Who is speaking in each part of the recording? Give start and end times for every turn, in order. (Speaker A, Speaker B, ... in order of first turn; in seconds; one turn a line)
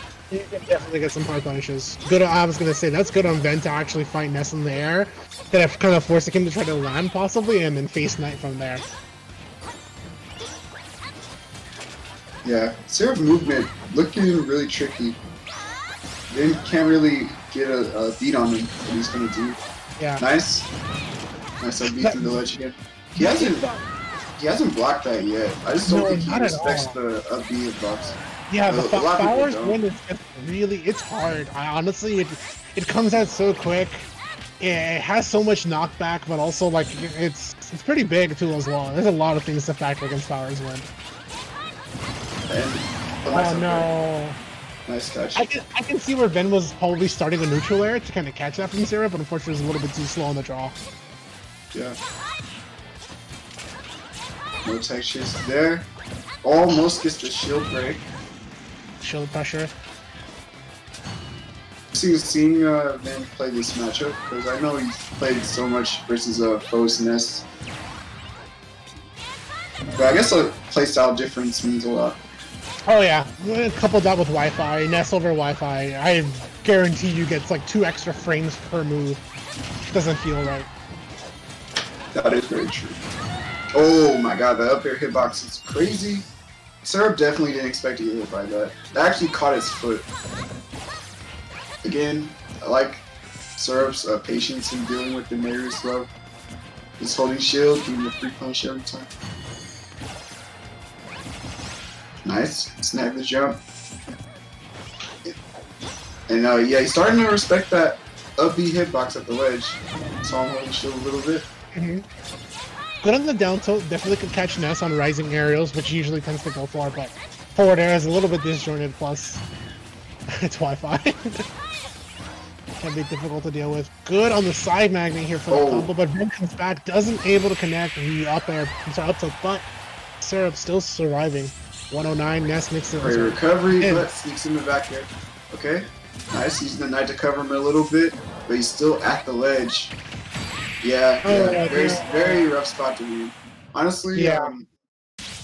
Speaker A: 0.3-8.8
Speaker B: 12.4-15.2
Speaker B: 16.3-19.6
Speaker A: 20.0-20.2
Speaker B: 20.2-20.7
Speaker B: 21.6-23.7
Speaker A: 21.8-22.4
Speaker A: 23.2-23.8
Speaker B: 24.4-29.8
Speaker A: 25.8-27.0
Speaker A: 28.5-40.9
Speaker B: 42.5-43.9
Speaker A: 43.3-44.4
Speaker B: 44.9-45.5
Speaker A: 45.4-50.8
Speaker B: 54.6-55.9
Speaker B: 56.4-58.0
Speaker A: 59.0-59.7
Speaker B: 61.9-67.5
Speaker B: 69.9-72.2
Speaker A: 72.9-79.2
Speaker A: 79.8-80.7
Speaker B: 82.1-83.0
Speaker B: 83.7-86.3
Speaker B: 86.8-90.0
Speaker B: 91.8-93.0
Speaker B: 93.5-96.1
Speaker B: 97.0-99.1
Speaker B: 102.2-103.6
Speaker B: 106.3-111.5
Speaker A: 111.7-112.0
Speaker A: 113.0-119.4
Speaker A: 120.3-121.3
Speaker A: 122.8-129.7
Speaker B: 125.5-125.9
Speaker A: 130.2-134.1
Speaker B: 133.0-139.9
Speaker B: 140.8-144.7
Speaker A: 141.2-142.5
Speaker A: 144.1-144.5